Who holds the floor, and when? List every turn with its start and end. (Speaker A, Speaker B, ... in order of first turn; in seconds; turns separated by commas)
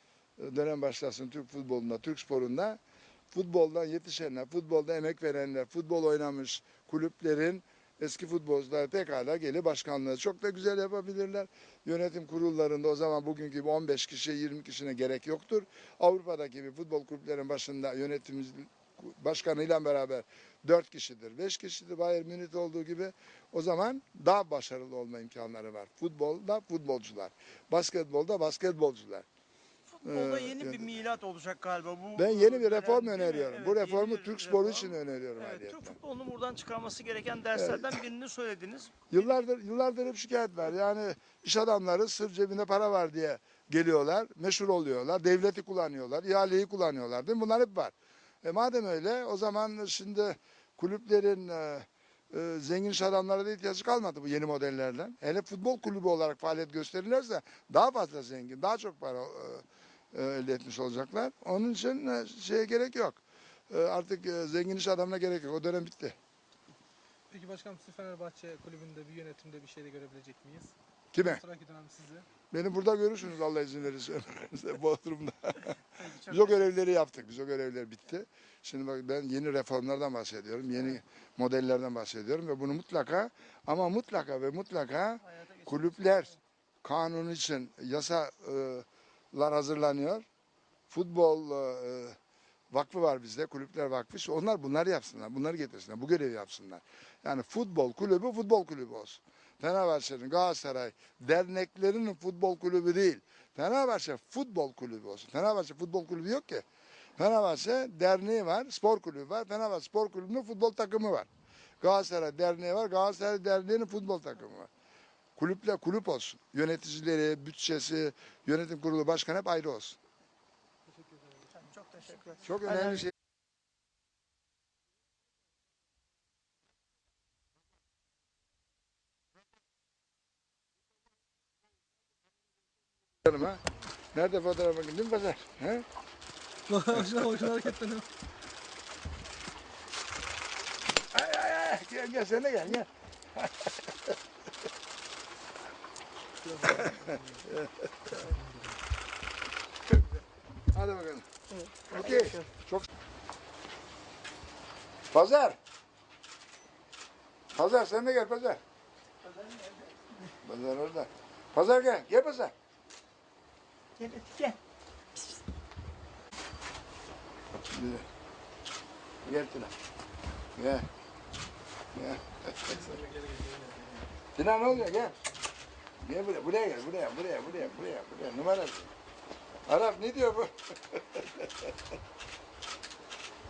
Speaker A: 0.4-2.8, Speaker A: 3.3-29.3, Speaker B: 29.9-39.1, Speaker A: 30.0-31.0, Speaker A: 32.2-36.0, Speaker A: 37.5-38.0, Speaker A: 39.1-66.2, Speaker C: 67.3-72.3, Speaker A: 71.1-71.4, Speaker A: 72.5-90.3, Speaker B: 85.3-86.2, Speaker A: 90.9-92.2, Speaker A: 92.7-106.7, Speaker A: 107.2-111.3, Speaker A: 111.8-114.7, Speaker A: 115.4-120.0, Speaker B: 121.5-123.0, Speaker A: 122.4-123.1, Speaker A: 133.2-133.6, Speaker A: 134.1-135.9, Speaker C: 136.7-138.1, Speaker A: 141.1-144.1, Speaker C: 146.4-147.5, Speaker A: 146.6-148.2, Speaker A: 150.7-151.3, Speaker B: 151.5-152.4, Speaker A: 151.9-152.9, Speaker A: 155.1-155.6, Speaker A: 157.5-158.6, Speaker A: 160.4-162.5, Speaker B: 164.0-164.6, Speaker A: 167.7-168.1, Speaker A: 169.2-169.7, Speaker A: 170.6-170.9, Speaker A: 171.9-173.0, Speaker C: 172.7-174.0, Speaker A: 174.3-175.2, Speaker A: 176.0-178.9, Speaker A: 179.7-181.7